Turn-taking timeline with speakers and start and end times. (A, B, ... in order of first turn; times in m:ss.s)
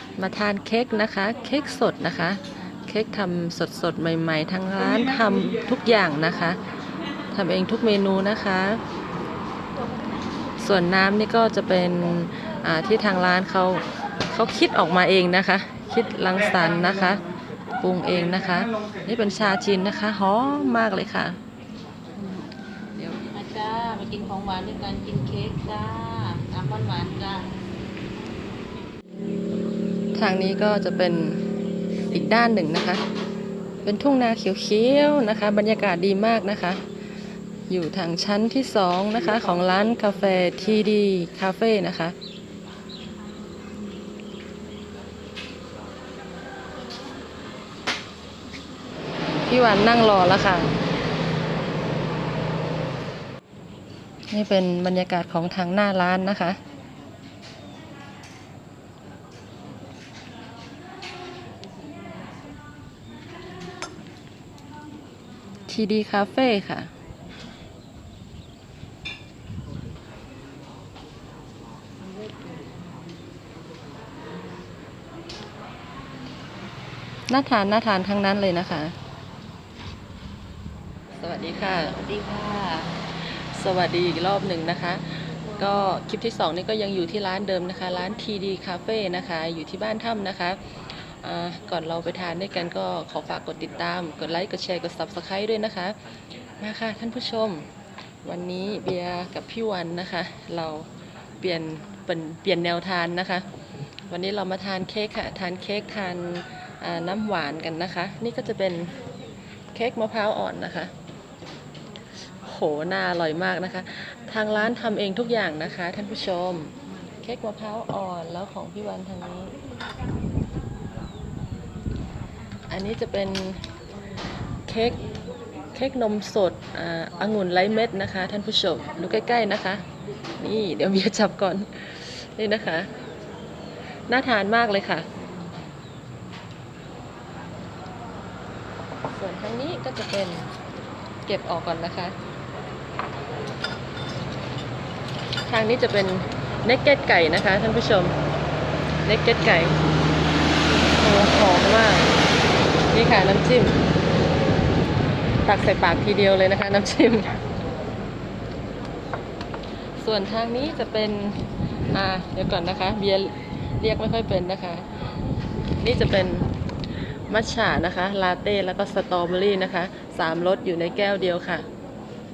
0:00.2-0:06.6 A
0:07.3-0:08.8 A
0:10.6-0:17.2 A
0:17.8-0:21.4 A
0:22.2-0:22.4 B
0:23.0-0:23.3 A
0:23.3-0:27.5 B
0:30.2-0:31.4 A
0:32.1-0:33.0 A
0:33.8-0:36.8 A
0:37.7-0:42.1 A
0:39.1-0:40.8 B
0:49.4-0:50.7 A
0:54.3-0:56.6 A
1:05.7-1:06.9 A
1:17.3-1:18.9 A
1:21.2-1:21.9 A
1:21.5-1:22.9 B
1:23.3-1:25.0 A
1:25.6-1:36.0 A
1:36.6-1:37.7 A
1:38.2-1:40.9 A
1:41.4-1:43.4 A
1:44.1-1:48.9 A
1:49.7-1:50.9 A
1:52.4-1:56.7 A
1:57.2-1:59.5 A
2:02.7-2:03.6 A
2:04.7-2:05.0 A
2:05.7-2:09.8 A
2:10.4-2:12.9 A
2:14.1-2:15.0 A
2:19.1-2:20.5 A
2:21.2-2:22.1 A
2:25.5-2:28.1 A
2:29.0-2:29.7 A
2:31.0-2:32.1 A
2:32.9-2:33.8 A
2:35.4-2:37.3 A
2:40.0-2:41.4 A
2:41.9-2:44.8 A
2:45.8-2:46.5 A
2:47.3-2:51.6 A